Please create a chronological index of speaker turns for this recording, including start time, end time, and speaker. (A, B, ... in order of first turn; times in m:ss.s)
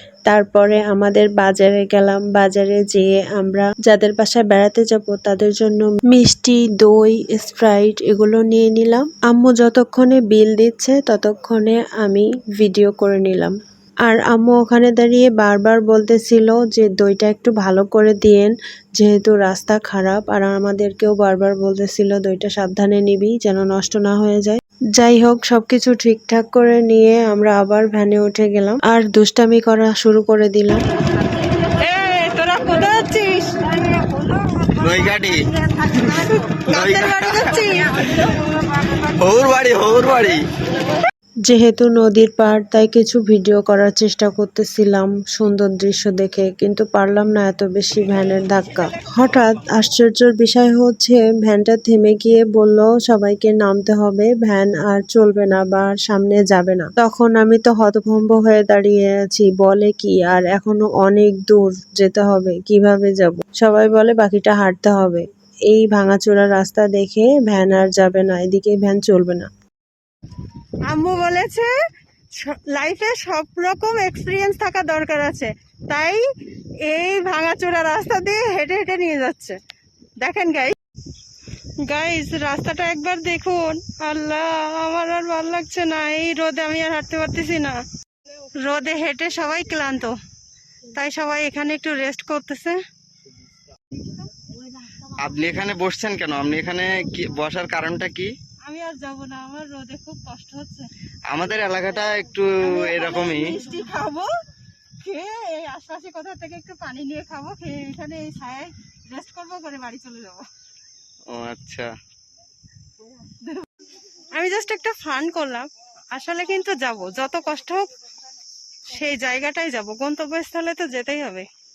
0:00.3-0:30.8 A
0:31.6-0:38.4 B
0:34.8-0:35.5 C
0:36.7-0:37.6 C
0:39.0-0:40.4 C
0:41.5-1:09.5 A
1:10.9-1:11.7 B
1:12.3-1:16.2 B
1:16.8-1:19.6 B
1:20.2-1:20.8 B
1:21.8-1:27.8 B
1:28.6-1:30.2 B
1:30.9-1:32.8 B
1:35.2-1:38.3 C
1:38.6-1:40.9 B
1:41.3-1:43.6 C
1:42.6-1:44.3 B
1:45.0-1:50.5 B
1:51.3-1:51.9 C
1:53.2-1:57.9 B
1:58.9-2:01.5 B